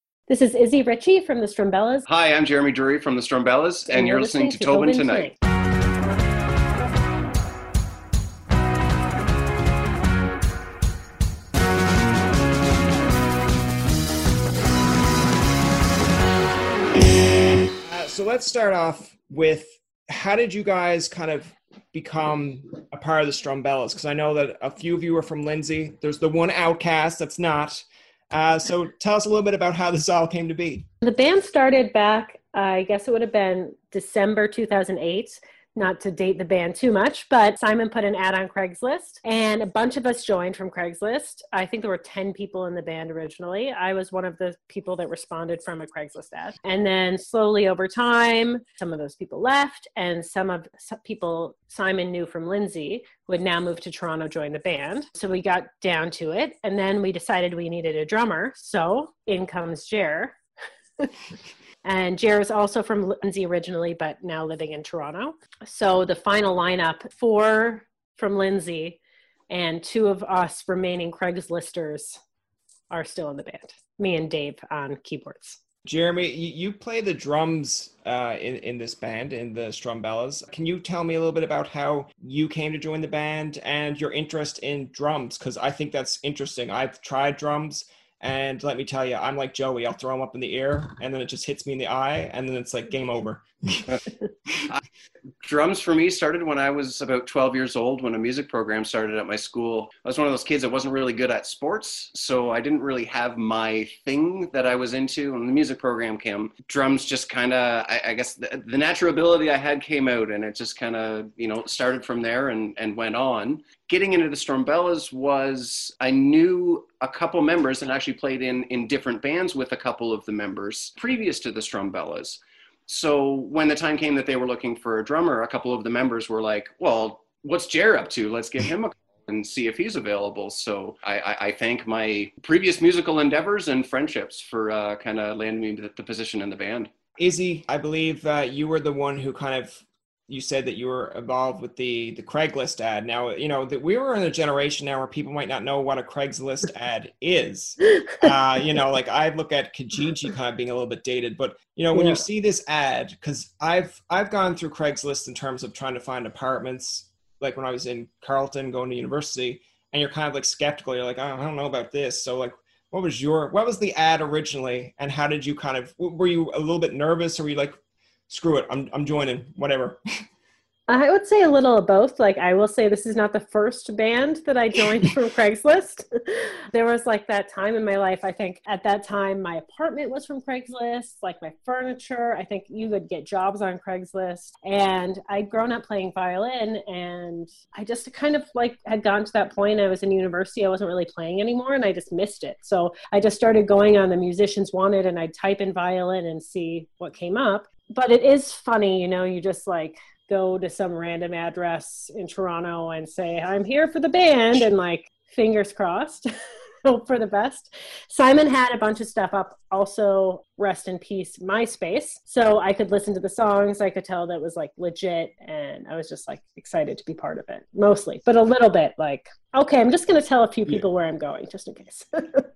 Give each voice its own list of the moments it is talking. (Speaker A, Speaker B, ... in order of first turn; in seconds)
Speaker A: 0.3-2.0, 3.9-5.4, 31.0-60.4, 61.9-69.0, 69.5-72.2, 72.9-75.6, 151.9-152.2, 170.9-206.3, 206.8-222.5
Speaker B: 2.1-5.3, 95.4-136.9
Speaker C: 17.7-30.9, 75.8-93.9, 137.2-167.8, 168.3-170.0